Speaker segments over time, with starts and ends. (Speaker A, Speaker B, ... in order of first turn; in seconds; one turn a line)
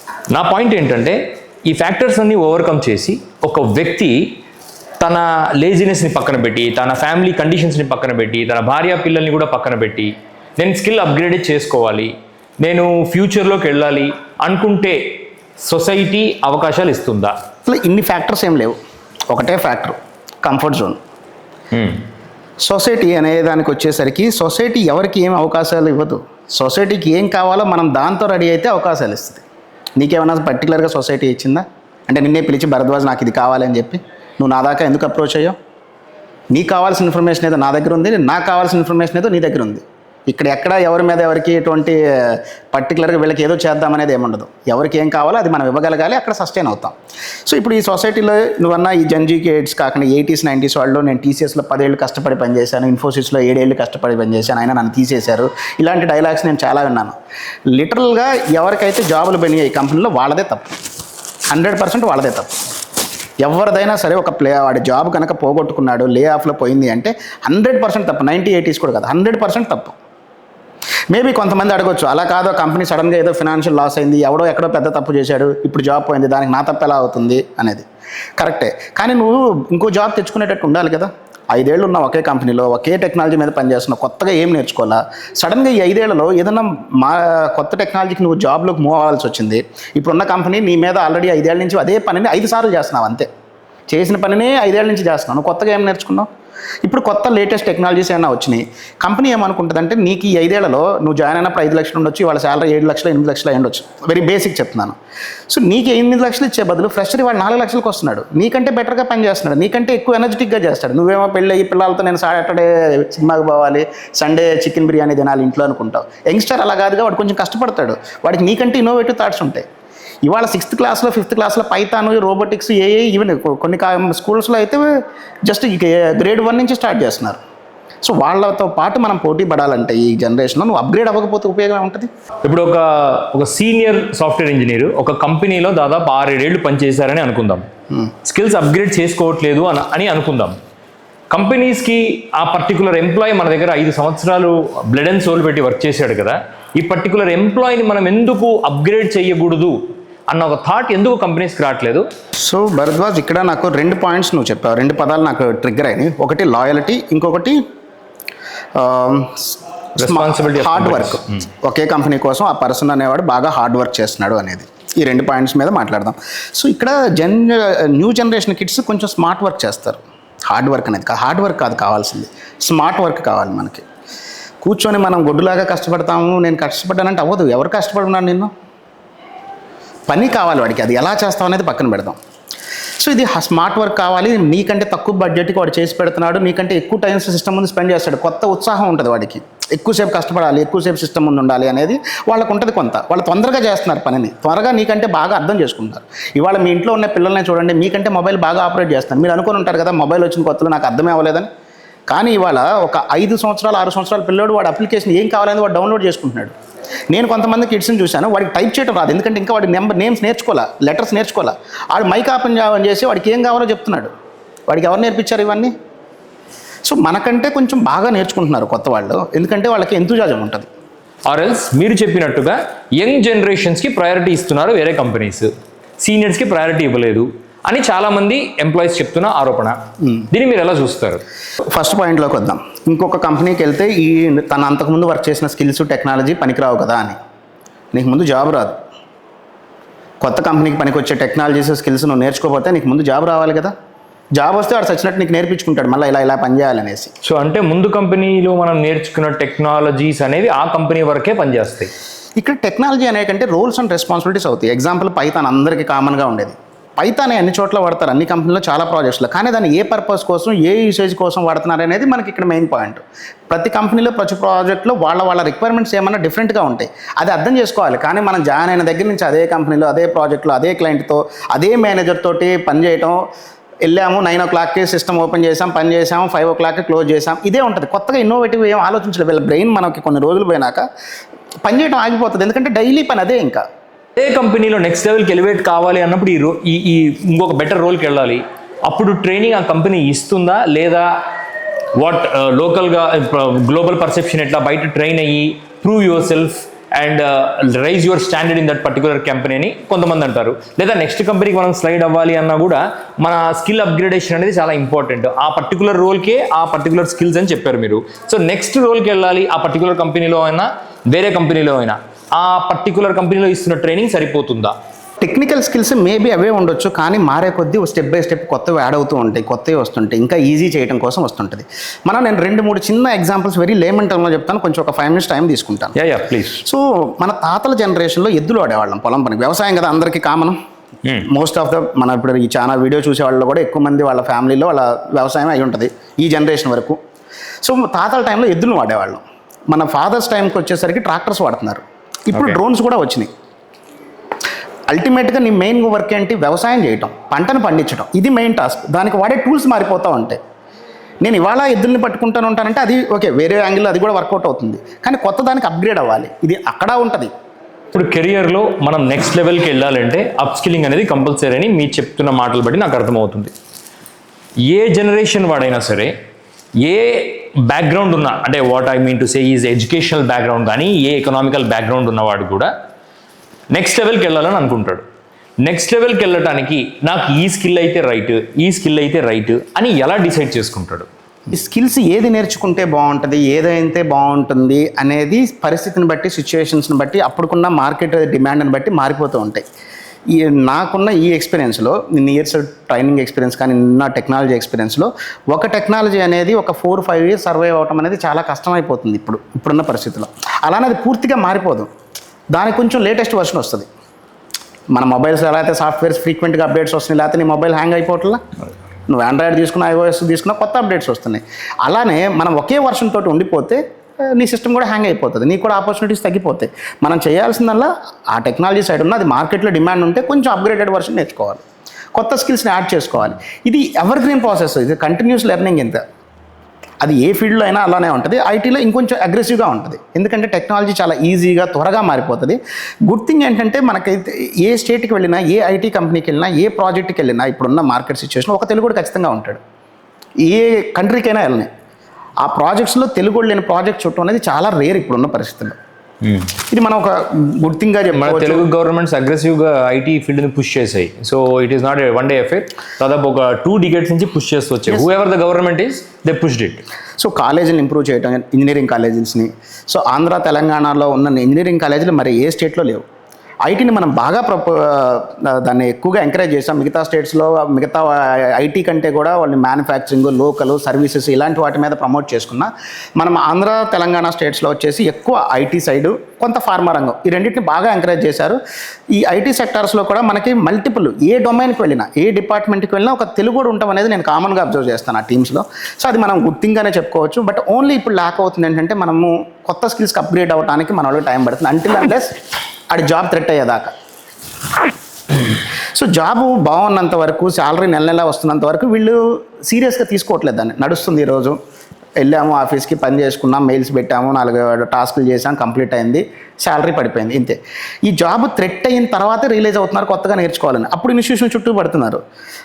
Speaker A: 0.3-4.2
Speaker A: 5.0-15.0
Speaker A: 15.6-17.3
Speaker B: 17.7-18.8
Speaker B: 19.3-21.0
Speaker A: 21.7-22.0
Speaker B: 22.6-29.4
Speaker B: 30.0-35.5
Speaker B: 36.5-47.0
Speaker B: 47.5-57.2
Speaker B: 57.7-60.8
Speaker B: 61.5-62.5
Speaker B: 63.4-70.0
Speaker B: 71.1-77.8
Speaker B: 78.4-93.3
Speaker B: 93.9-96.3
Speaker B: 96.8-105.0
Speaker B: 105.5-119.6
Speaker B: 120.3-124.8
Speaker B: 125.5-127.4
Speaker B: 128.0-132.1
Speaker A: 132.4-137.7
Speaker A: 138.2-140.6
Speaker A: 141.3-152.0
Speaker B: 152.4-157.6
Speaker B: 158.8-173.8
Speaker A: 160.0-161.4
Speaker B: 174.6-178.5
Speaker B: 180.1-182.2
Speaker B: 183.0-201.5
Speaker B: 202.1-206.5
Speaker B: 207.1-214.1
Speaker B: 214.7-215.7
Speaker B: 216.8-220.7
Speaker A: 221.3-229.8
Speaker A: 230.3-231.2
Speaker B: 231.7-237.2
Speaker B: 237.9-238.8
Speaker B: 240.2-243.7
Speaker B: 244.3-247.1
Speaker A: 247.2-251.9
Speaker B: 252.4-273.2
Speaker B: 273.8-280.9
Speaker B: 281.6-283.6
Speaker A: 284.2-291.1
Speaker A: 291.9-314.7
Speaker B: 315.2-325.9
Speaker A: 325.9-326.6
Speaker B: 326.5-330.6
Speaker B: 331.2-337.0
Speaker B: 337.6-343.3
Speaker B: 344.9-350.4
Speaker B: 351.2-357.3
Speaker A: 357.9-363.5
Speaker A: 364.7-366.1
Speaker A: 366.8-372.7
Speaker A: 373.7-375.0
Speaker A: 375.6-381.1
Speaker B: 381.5-389.6
Speaker B: 390.3-401.9
Speaker B: 402.5-403.9
Speaker B: 404.9-408.4
Speaker B: 409.1-421.6
Speaker B: 422.1-426.0
Speaker B: 427.0-439.6
Speaker B: 440.4-441.7
Speaker B: 442.4-445.8
Speaker A: 446.2-446.5
Speaker B: 446.7-448.6
Speaker A: 448.1-456.8
Speaker B: 457.2-463.0
Speaker B: 463.6-478.6
Speaker B: 479.1-492.4
Speaker B: 492.9-493.9
Speaker B: 495.9-501.6
Speaker B: 502.2-512.2